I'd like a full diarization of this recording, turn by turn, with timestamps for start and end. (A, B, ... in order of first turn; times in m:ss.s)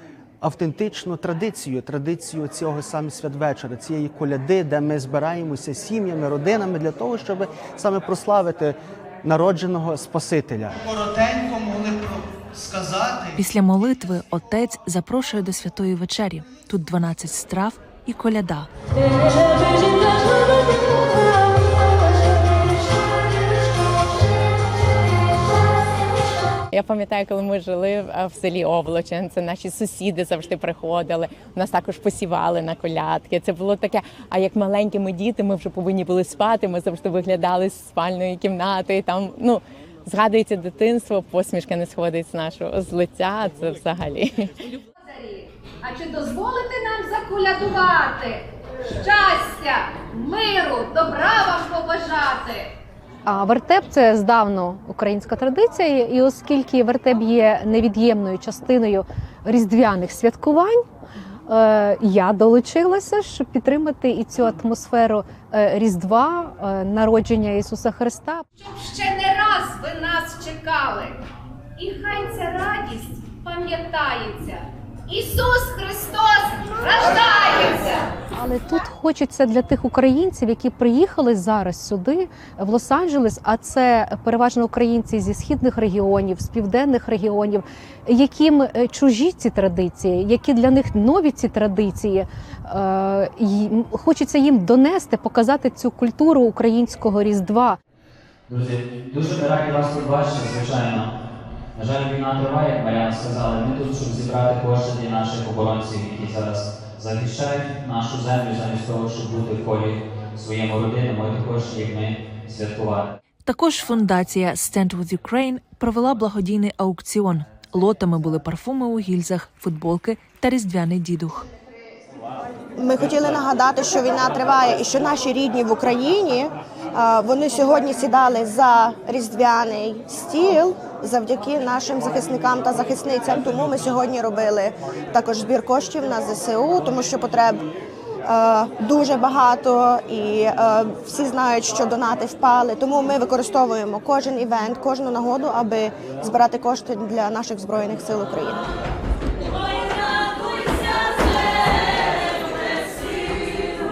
0:00.4-0:13.3 A
0:13.4-0:18.7 B
0:26.7-0:44.6 C
0:45.1-0:48.4 D
0:49.0-0:52.7 D
0:53.2-1:00.8 E
1:01.5-1:08.4 E
1:08.6-1:11.2 D
1:11.8-1:18.0 D
1:18.3-1:37.8 E
1:38.5-1:41.1 F
1:41.8-1:53.1 F
1:53.4-2:01.4 B
2:02.8-2:17.6 G
2:18.2-2:28.7 G